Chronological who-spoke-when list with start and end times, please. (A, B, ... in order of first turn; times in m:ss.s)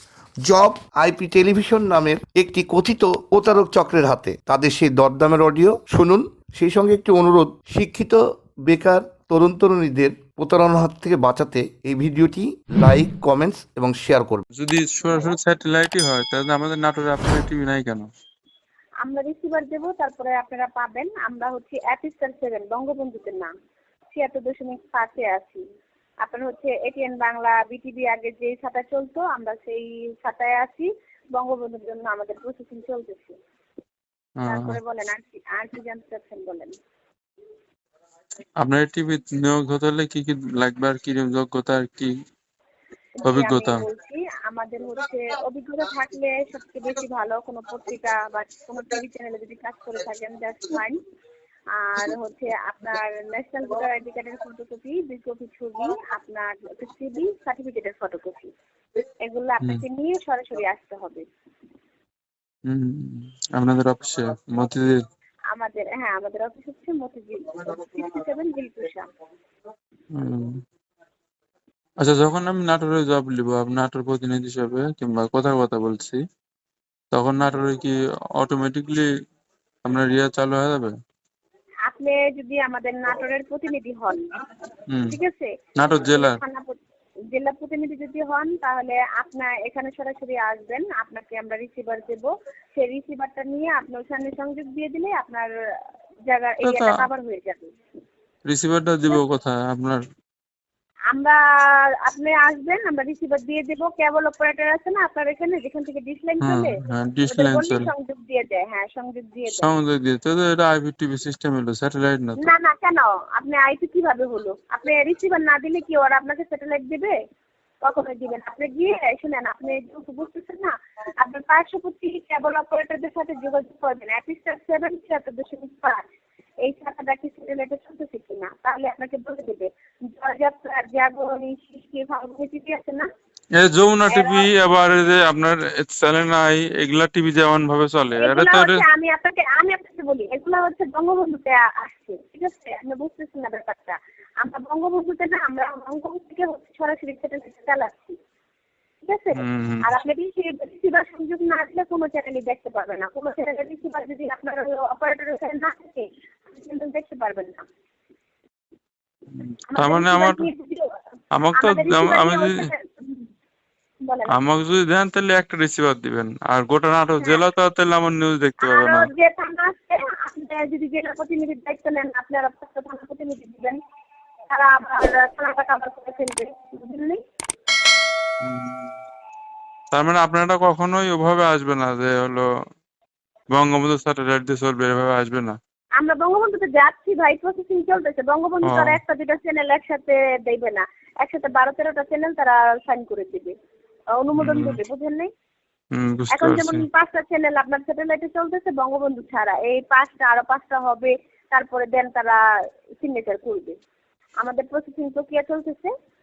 0:00.4-0:14.4 A
0:14.6-0:18.1 B
0:19.0-0:23.5 C
0:24.1-0:25.6 C
0:26.2-0:33.4 C
0:34.4-0:34.8 B
0:34.5-0:36.8 C
0:38.6-0:42.1 B
0:43.2-0:51.0 C
0:43.2-0:43.8 B
0:51.8-0:58.5 C
0:59.2-1:01.3 C
1:02.7-1:05.0 B
1:05.5-1:09.1 C
1:10.2-1:10.6 B
1:12.0-1:16.2 B
1:17.1-1:19.1 B
1:19.8-1:20.9 B
1:21.9-1:24.2 C
1:24.9-1:25.2 B
1:25.1-1:26.8 C
1:25.8-1:26.4 B
1:27.3-1:35.5 C
1:36.3-1:37.7 C
1:36.6-1:37.1 B
1:38.4-1:40.0 B
1:41.1-1:49.7 C
1:46.4-1:47.9 B
1:49.6-1:52.5 B
1:52.4-1:57.2 C
1:57.8-2:06.0 C
2:06.6-2:13.1 C
2:13.6-2:18.8 B
2:14.1-2:14.5 C
2:18.2-2:28.2 C
2:29.0-2:37.6 C
2:29.4-2:29.9 B
2:39.4-2:40.5 B
2:39.7-2:41.0 C
2:41.4-2:42.7 B
2:41.5-2:43.3 C
2:44.0-2:44.3 C
2:44.3-2:49.1 B
2:48.6-2:53.8 C
2:54.5-2:57.2 C
2:58.4-2:58.9 B
2:59.9-3:02.4 B
3:03.5-3:05.6 B
3:06.0-3:13.6 C
3:08.7-3:09.0 B
3:14.1-3:15.3 C
3:14.4-3:14.8 B
3:15.9-3:16.9 B
3:16.3-3:22.4 C
3:23.0-3:23.8 C
3:24.4-3:25.9 C